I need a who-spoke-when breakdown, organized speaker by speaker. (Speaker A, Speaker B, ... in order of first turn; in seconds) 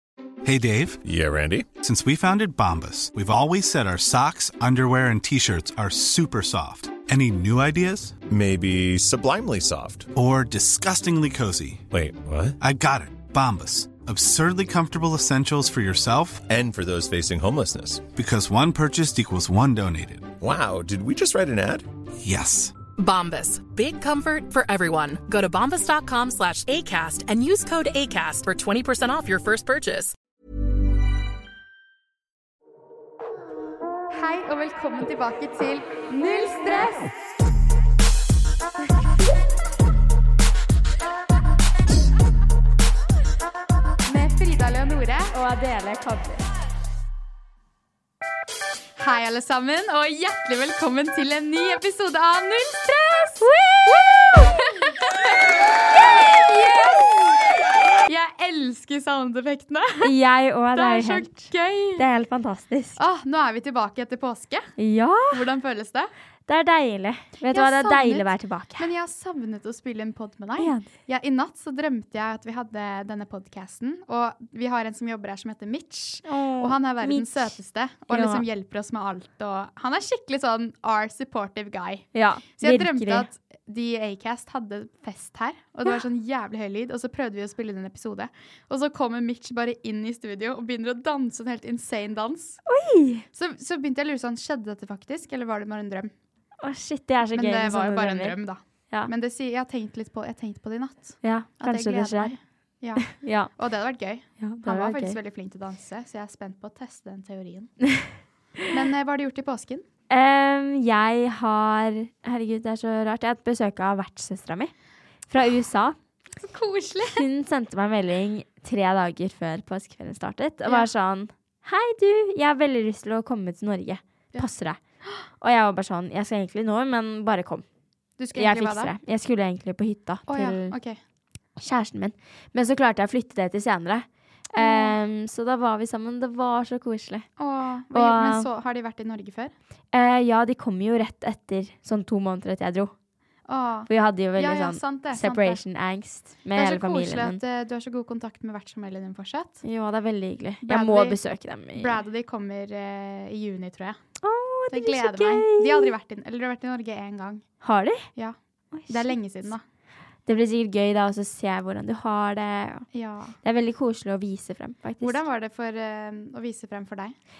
Speaker A: 0.4-1.0, 1.8-8.2, 10.1-11.8, 12.6-16.4, 18.1-20.3, 22.2-22.7
Speaker B: 1.0-1.7, 8.3-10.1, 11.9-12.6, 16.5-18.1, 20.4-21.9
Speaker C: 23.0-30.1
Speaker D: 34.1-37.1, 44.1-45.3, 49.0-53.5, 54.1-55.0, 56.0-57.3, 58.0-60.1, 60.7-62.0, 63.0-64.7, 65.3-66.1, 67.5-92.6, 93.3-96.1, 97.3-107.7, 108.7-109.8, 116.4-117.2, 128.2-128.9, 130.3-131.0, 134.6-135.0, 137.4-139.5, 143.5-145.6, 146.5-149.6, 150.6-151.2, 151.7-154.0, 154.7-157.5, 158.9-159.6, 162.9-163.4, 165.0-167.1
Speaker E: 45.3-46.4, 53.4-54.6, 60.0-63.0, 64.8-65.4, 66.5-68.9, 70.6-70.9, 76.2-77.6, 78.1-78.4, 82.1-83.3, 92.7-93.2, 96.6-98.4, 101.2-102.3, 103.0-103.5, 104.4-105.2, 110.1-114.7, 115.3-116.0, 117.0-124.8, 125.4-127.6, 128.3-130.7, 131.6-137.3, 137.9-138.5, 139.9-142.9, 143.9-147.4, 149.6-152.0, 154.2-155.9, 157.6-158.1, 158.7-159.2, 160.2-162.9, 163.4-165.2